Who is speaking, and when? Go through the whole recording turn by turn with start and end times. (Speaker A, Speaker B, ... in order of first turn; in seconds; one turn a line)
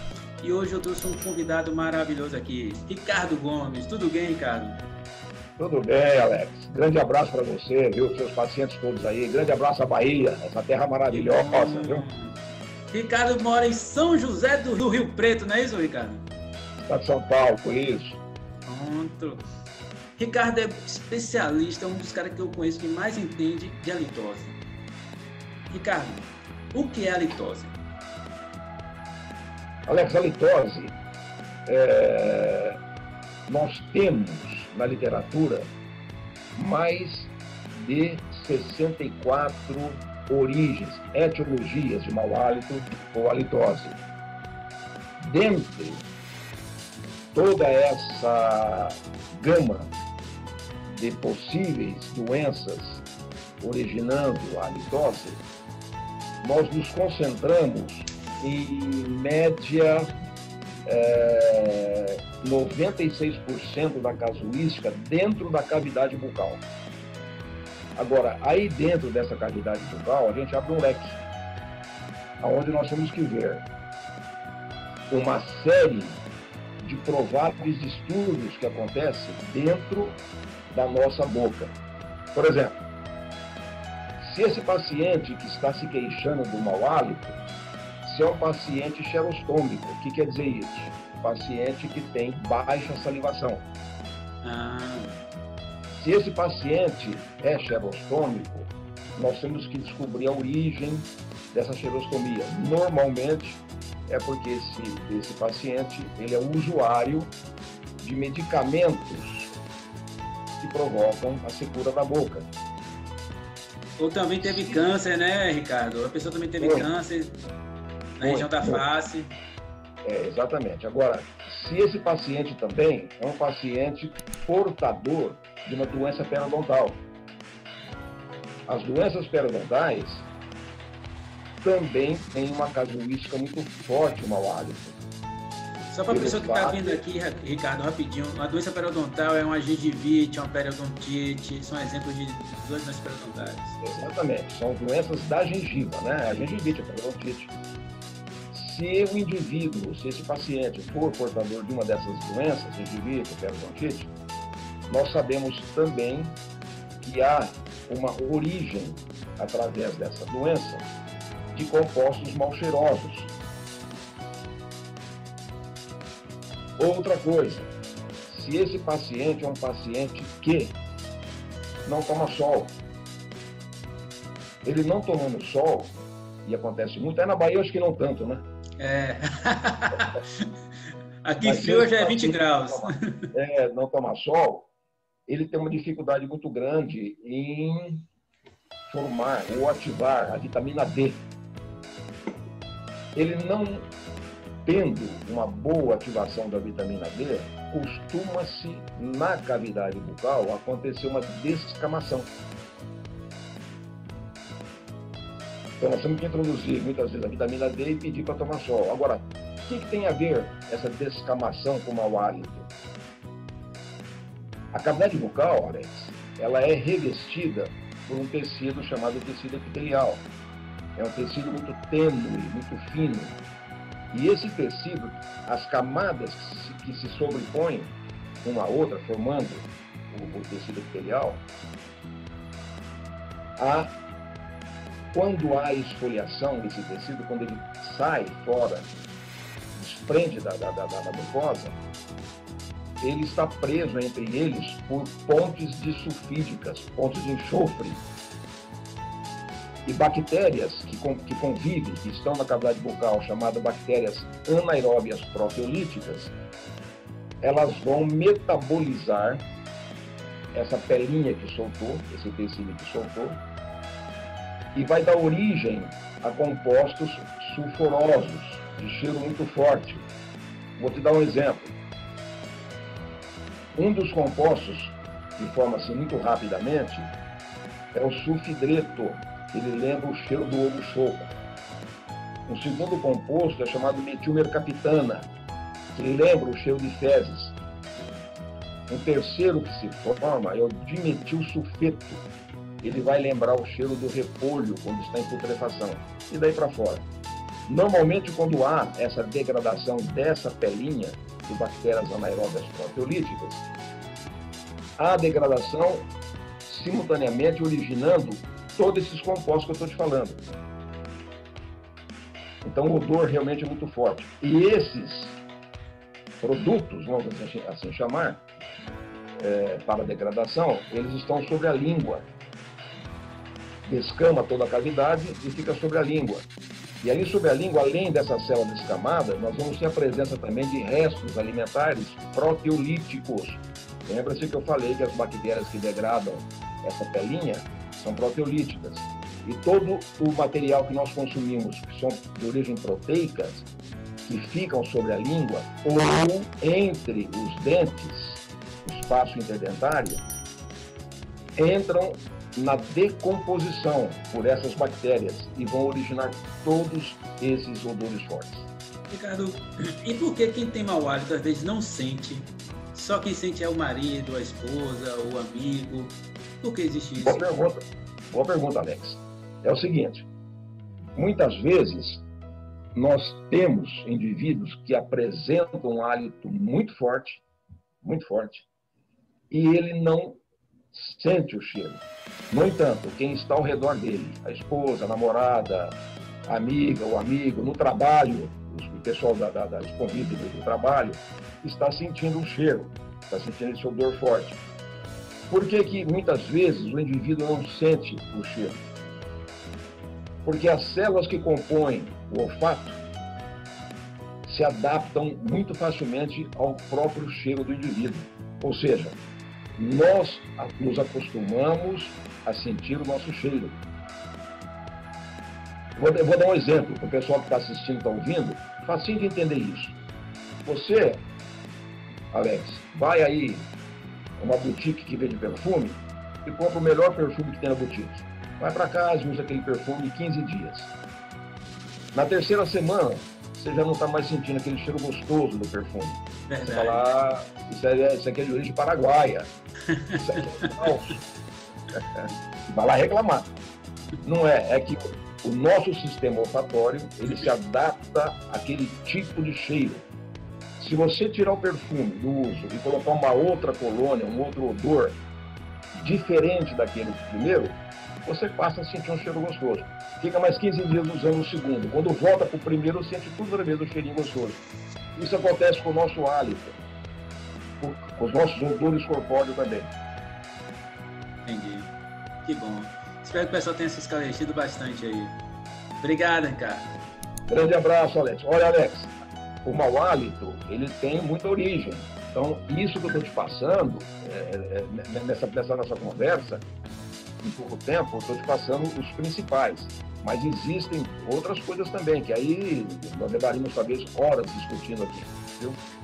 Speaker A: 0.4-4.8
Speaker B: 5.6-12.1
Speaker A: 11.1-12.3
Speaker A: 12.9-16.2
Speaker B: 16.9-18.2
Speaker A: 18.6-19.4
Speaker A: 20.2-24.6
Speaker A: 25.7-27.7
Speaker B: 29.9-31.0
Speaker B: 31.6-32.8
Speaker B: 33.5-35.7
Speaker B: 36.5-44.0
Speaker B: 45.2-46.0
Speaker B: 47.3-49.9
Speaker B: 50.9-53.0
Speaker B: 53.6-55.4
Speaker B: 56.4-60.1
Speaker B: 60.9-66.6
Speaker B: 67.9-71.2
Speaker B: 72.4-73.7
Speaker B: 75.1-76.2
Speaker B: 76.8-80.2
Speaker B: 80.7-81.8
Speaker B: 82.3-82.8
Speaker B: 84.2-87.4
Speaker B: 88.0-93.7
Speaker A: 94.4-95.2
Speaker B: 95.9-107.3
Speaker B: 108.0-109.5
Speaker B: 110.6-112.5
Speaker A: 114.0-117.4
Speaker B: 114.4-114.8
Speaker B: 116.6-116.9
Speaker A: 118.2-119.3
Speaker B: 118.2-118.8
Speaker B: 120.0-127.0
Speaker B: 128.7-130.3
Speaker B: 131.6-135.0
Speaker A: 135.9-143.8
Speaker B: 136.1-137.0
Speaker B: 143.8-147.5
Speaker B: 148.5-154.1
Speaker B: 154.9-156.4
Speaker B: 157.0-160.9
Speaker B: 161.5-163.3
Speaker B: 166.8-167.7
Speaker B: 168.3-170.8
Speaker B: 171.8-172.8
Speaker B: 174.6-178.4
Speaker A: 178.8-180.5
Speaker A: 181.2-182.9
Speaker B: 181.4-184.7
Speaker B: 185.3-188.1
Speaker B: 188.9-191.2
Speaker B: 193.1-193.9
Speaker B: 194.6-202.3
Speaker B: 205.8-212.7
Speaker B: 214.7-220.3
Speaker B: 220.9-223.4
Speaker B: 224.1-231.4
Speaker B: 233.6-233.9
Speaker B: 235.1-238.9
Speaker B: 239.7-241.8
Speaker B: 243.0-248.0
Speaker B: 249.8-256.3
Speaker B: 257.4-259.5
Speaker B: 260.5-263.4
Speaker B: 264.7-270.1
Speaker B: 270.8-271.8
Speaker B: 273.8-277.1
Speaker B: 277.9-281.3
Speaker B: 282.5-285.3
Speaker B: 285.9-287.6
Speaker B: 288.9-292.2
Speaker B: 292.8-297.1
Speaker B: 297.7-303.6
Speaker B: 305.0-306.1
Speaker B: 306.6-310.4
Speaker B: 312.6-315.4
Speaker B: 316.4-318.4
Speaker B: 319.4-322.3
Speaker B: 323.8-326.5
Speaker B: 327.0-343.7
Speaker B: 344.2-350.2
Speaker B: 351.6-358.7
Speaker A: 359.1-367.5
Speaker B: 367.2-370.3
Speaker B: 371.1-372.2
Speaker B: 372.9-377.4
Speaker B: 378.0-378.7
Speaker B: 379.5-380.4
Speaker B: 380.9-394.6
Speaker B: 395.5-398.8
Speaker B: 400.4-403.0
Speaker B: 404.4-409.2
Speaker B: 409.8-413.8
Speaker B: 415.9-420.0
Speaker B: 420.6-421.2
Speaker B: 422.3-423.7
Speaker B: 424.4-430.9
Speaker B: 432.1-439.5
Speaker A: 436.5-437.1
Speaker A: 439.9-440.9
Speaker B: 440.2-441.2
Speaker B: 441.9-443.5
Speaker B: 444.2-450.1
Speaker B: 450.8-455.2
Speaker B: 455.9-464.6
Speaker B: 465.1-466.8
Speaker B: 467.8-469.9
Speaker A: 471.4-471.9
Speaker A: 472.4-475.4
Speaker A: 476.0-476.9
Speaker B: 477.5-479.1
Speaker B: 479.6-486.6
Speaker B: 487.4-495.8